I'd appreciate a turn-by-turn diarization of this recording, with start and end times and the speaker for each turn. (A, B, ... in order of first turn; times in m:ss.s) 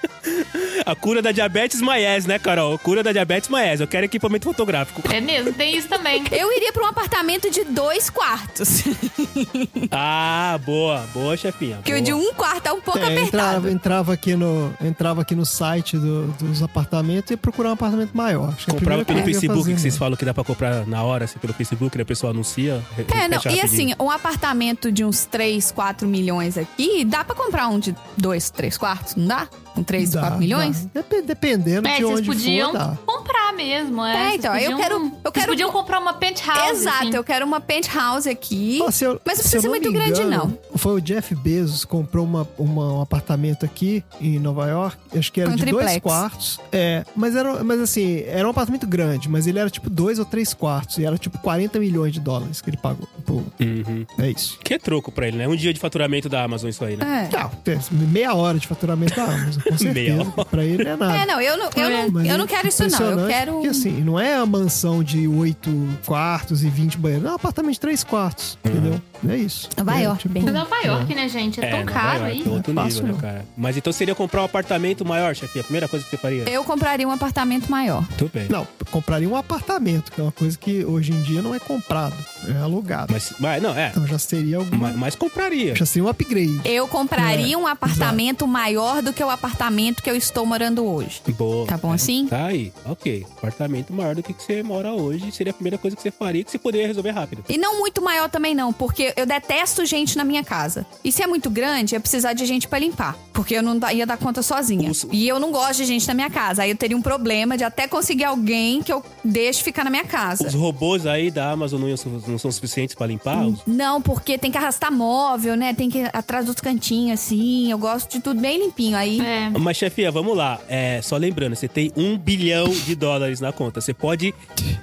0:00.2-0:05.1 A
0:05.1-0:06.4 B
0:06.3-0:09.9 C
0:09.9-0:12.2 A
0:11.8-0:13.7 C
0:12.9-0:20.0 D
0:18.7-0:23.9 A
0:23.1-0:30.8 C
0:30.0-0:33.0 D
0:31.8-0:37.2 B
0:34.1-0:35.8 C
0:36.5-0:40.6 C
0:38.8-0:53.5 D
0:45.4-0:46.2 C
0:53.6-0:54.1 A
0:54.2-0:54.6 D
0:54.6-0:57.1 A
0:57.0-0:57.4 C
0:57.3-1:01.3 D
0:59.6-1:00.8 A
1:01.1-1:03.9 C
1:01.7-1:02.1 B
1:01.8-1:11.1 D
1:08.6-1:09.0 A
1:09.8-1:10.6 C
1:10.4-1:12.5 B
1:11.6-1:16.5 A
1:12.4-1:13.2 D
1:16.4-1:18.1 C
1:18.2-1:18.5 A
1:18.5-1:23.1 D
1:23.1-1:24.0 A
1:23.9-1:25.0 D
1:24.7-1:25.8 A
1:25.7-1:28.2 D
1:26.6-1:32.3 C
1:31.3-1:37.5 A
1:37.5-1:50.6 C
1:44.8-1:45.2 A
1:50.4-1:53.6 A
1:53.3-1:59.3 C
1:59.2-1:59.6 B
1:59.5-2:04.4 A